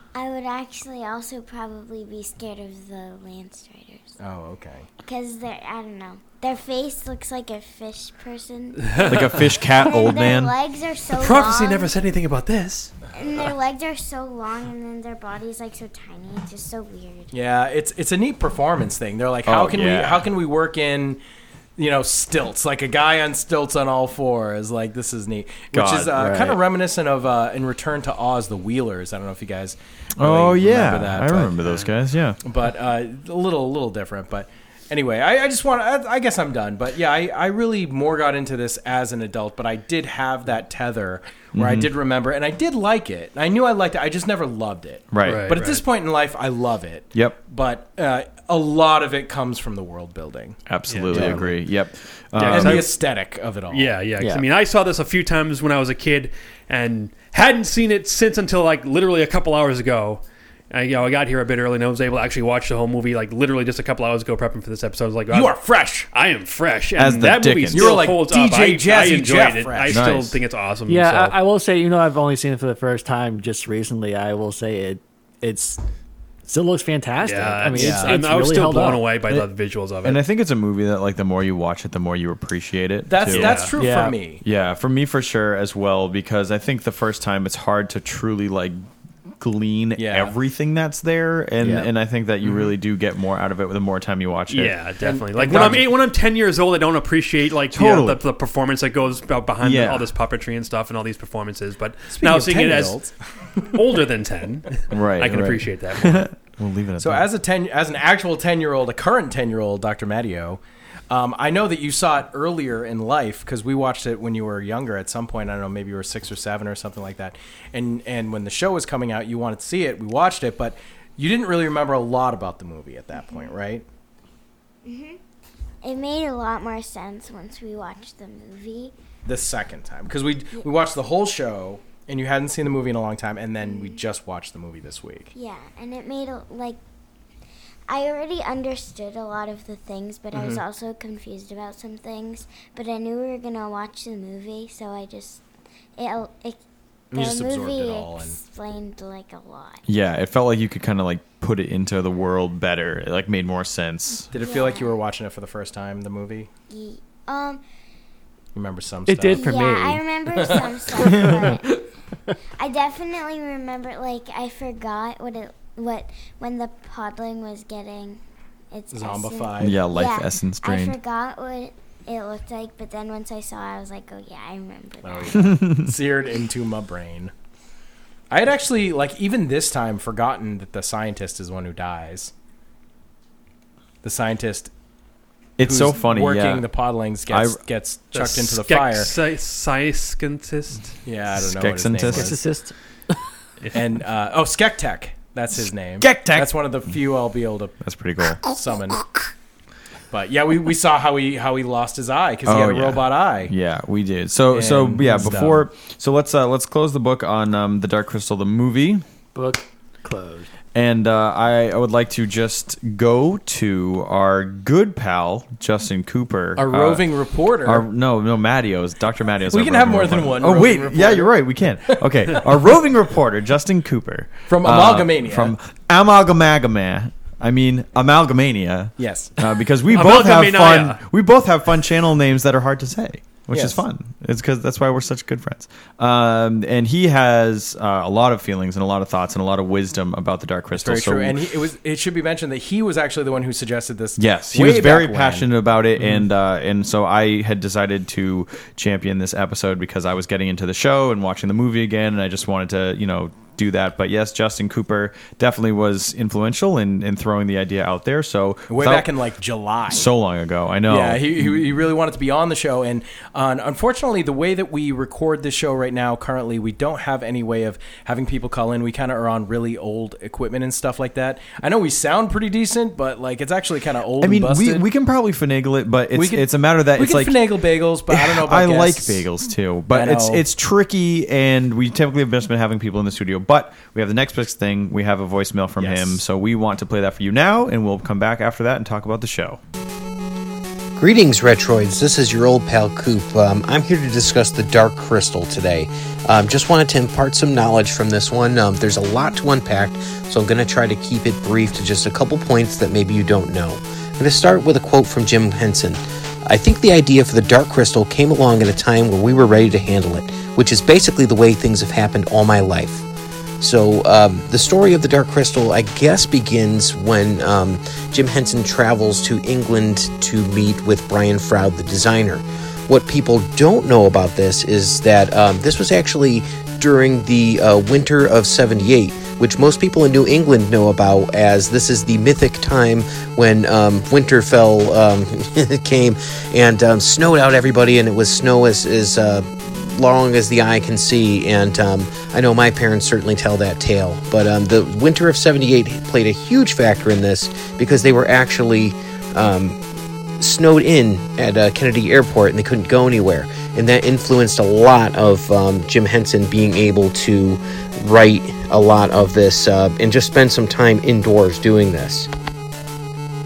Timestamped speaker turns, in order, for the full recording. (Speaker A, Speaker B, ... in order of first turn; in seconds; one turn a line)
Speaker A: 0.1-4.1
Speaker B: 4.2-4.9
Speaker A: 5.0-11.9
Speaker C: 9.0-10.5
Speaker D: 11.2-12.9
Speaker A: 13.1-17.3
Speaker B: 17.3-21.2
Speaker C: 19.4-20.3
Speaker B: 21.8-31.6
Speaker C: 25.7-26.3
Speaker E: 26.2-26.6
Speaker C: 30.2-32.4
Speaker D: 31.6-31.9
Speaker B: 32.4-50.6
Speaker C: 41.5-41.9
Speaker C: 45.1-45.5
Speaker D: 45.2-45.8
Speaker C: 50.7-52.9
Speaker D: 50.9-51.4
Speaker E: 51.1-51.5
Speaker D: 52.4-53.0
Speaker B: 52.5-53.9
Speaker D: 53.7-71.3
Speaker E: 54.2-54.4
Speaker B: 65.3-66.1
Speaker C: 67.0-68.0
Speaker B: 67.7-70.0
Speaker C: 69.9-70.4
Speaker E: 70.9-75.8
Speaker E: 76.4-79.0
Speaker D: 77.2-80.2
Speaker B: 77.7-78.1
Speaker C: 80.0-83.8
Speaker B: 83.1-84.4
Speaker D: 83.3-83.7
Speaker E: 83.8-84.2
Speaker C: 84.4-88.8
Speaker C: 89.4-94.8
Speaker B: 90.0-90.3
Speaker E: 91.6-91.9
Speaker D: 94.5-103.0
Speaker B: 95.0-95.8
Speaker C: 97.7-98.2
Speaker C: 99.6-100.1
Speaker B: 102.1-103.7
Speaker D: 103.6-106.3
Speaker C: 104.9-107.2
Speaker B: 107.0-123.8
Speaker A: 123.1-123.5
Speaker A: 124.8-125.2
Speaker A: 125.8-128.9
Speaker B: 129.2-135.3
Speaker A: 133.6-134.0
Speaker A: 135.3-136.8
Speaker A: 137.9-145.4
Speaker B: 140.3-140.6
Speaker A: 146.0-146.6
Speaker B: 147.1-148.4
Speaker A: 147.1-149.8
Speaker C: 149.9-154.3
Speaker B: 154.3-156.5
Speaker A: 154.3-155.0
Speaker A: 156.7-157.6
Speaker B: 158.5-159.5
Speaker E: 159.1-160.0
Speaker A: 159.3-161.8
Speaker B: 160.3-161.3
Speaker A: 162.6-168.2
Speaker A: 168.7-175.6
Speaker B: 168.9-169.8
Speaker C: 169.6-171.0
Speaker B: 175.0-177.3
Speaker C: 175.4-175.9
Speaker B: 178.3-182.3
Speaker B: 184.0-184.7
Speaker C: 185.6-186.7
Speaker B: 185.6-189.1
Speaker C: 187.3-187.6
Speaker D: 188.1-190.9
Speaker B: 191.0-192.4
Speaker C: 191.3-192.4
Speaker E: 192.1-192.7
Speaker B: 193.7-197.7
Speaker C: 196.0-196.5
Speaker C: 197.8-198.4
Speaker B: 198.4-199.0
Speaker B: 200.1-203.5
Speaker C: 202.4-209.0
Speaker B: 204.5-205.7
Speaker E: 209.3-210.5
Speaker C: 210.7-217.1
Speaker B: 216.6-217.8
Speaker C: 217.6-241.4
Speaker B: 219.5-222.4
Speaker B: 224.5-225.5
Speaker B: 229.0-229.3
Speaker D: 229.9-231.0
Speaker B: 233.5-233.8
Speaker B: 240.8-245.5
Speaker C: 244.2-259.1
Speaker B: 258.7-260.1
Speaker C: 259.9-261.6
Speaker B: 260.9-274.8
Speaker C: 274.2-277.5
Speaker B: 276.1-279.3
Speaker C: 278.1-289.6
Speaker B: 279.9-280.4
Speaker B: 285.8-286.2
Speaker F: 290.9-313.0
Speaker F: 313.6-349.8
Speaker F: 350.4-362.3